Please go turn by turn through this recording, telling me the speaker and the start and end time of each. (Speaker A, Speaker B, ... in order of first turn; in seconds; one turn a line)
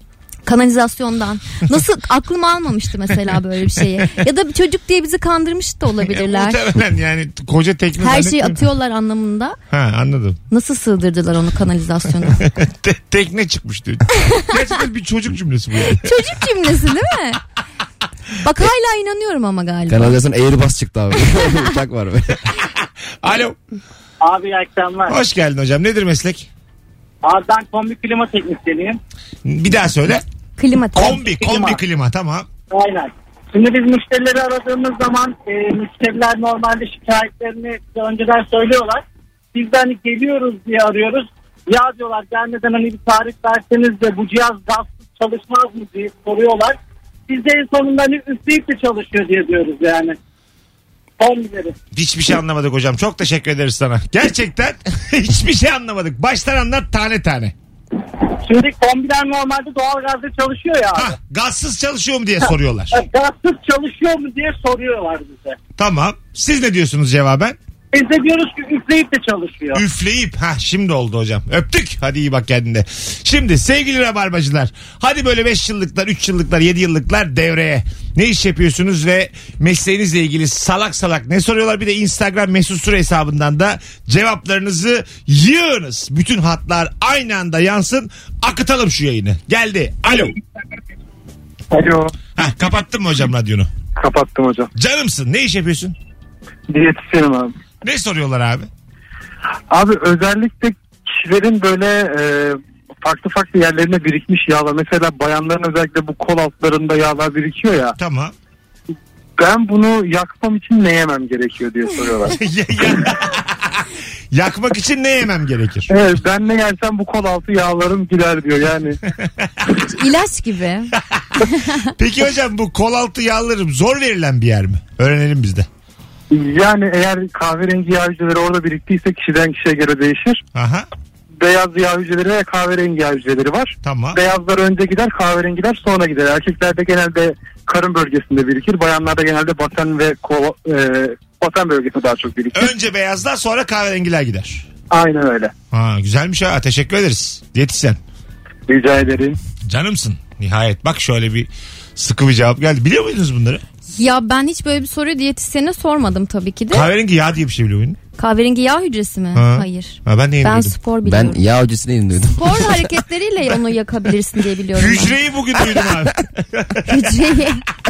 Speaker A: 0.5-6.6
Speaker B: 6.0-8.6
Speaker A: 8.0-9.6
Speaker B: 9.7-10.4
Speaker A: 10.5-12.4
Speaker B: 12.3-16.1
Speaker A: 15.9-17.4
Speaker A: 18.4-20.2
Speaker C: 19.9-22.4
Speaker B: 23.2-23.6
Speaker D: 24.2-25.2
Speaker B: 25.1-26.5
Speaker D: 27.2-29.0
Speaker B: 29.4-30.2
Speaker A: 30.6-31.3
Speaker B: 30.9-32.5
Speaker D: 31.4-31.8
Speaker D: 32.7-39.0
Speaker D: 39.5-46.8
Speaker D: 47.3-50.2
Speaker D: 51.2-51.8
Speaker B: 51.9-57.5
Speaker D: 58.4-61.1
Speaker B: 61.0-63.0
Speaker D: 62.9-65.6
Speaker B: 65.8-67.6
Speaker D: 67.9-69.8
Speaker B: 69.7-90.3
Speaker E: 91.7-92.2
Speaker B: 92.4-93.7
Speaker E: 94.0-94.7
Speaker B: 94.8-96.0
Speaker E: 96.7-97.5
Speaker B: 97.8-98.7
Speaker E: 99.7-108.0
Speaker B: 108.0-108.3
Speaker E: 109.4-112.4
Speaker B: 112.3-115.9
Speaker E: 115.9-119.0
Speaker B: 119.2-119.5
Speaker A: 119.8-121.9
Speaker B: 122.0-125.7
Speaker E: 126.3-130.4
Speaker B: 130.5-130.9
Speaker E: 131.4-142.7
Speaker B: 133.8-134.2
Speaker B: 142.5-144.7
Speaker E: 144.9-145.5
Speaker B: 145.7-148.0
Speaker E: 148.7-149.4
Speaker B: 149.7-153.6
Speaker A: 153.9-156.9
Speaker B: 156.7-158.0
Speaker A: 158.2-161.4
Speaker B: 159.3-160.8
Speaker C: 161.1-162.8
Speaker A: 162.4-165.2
Speaker B: 164.8-167.1
Speaker A: 166.9-167.6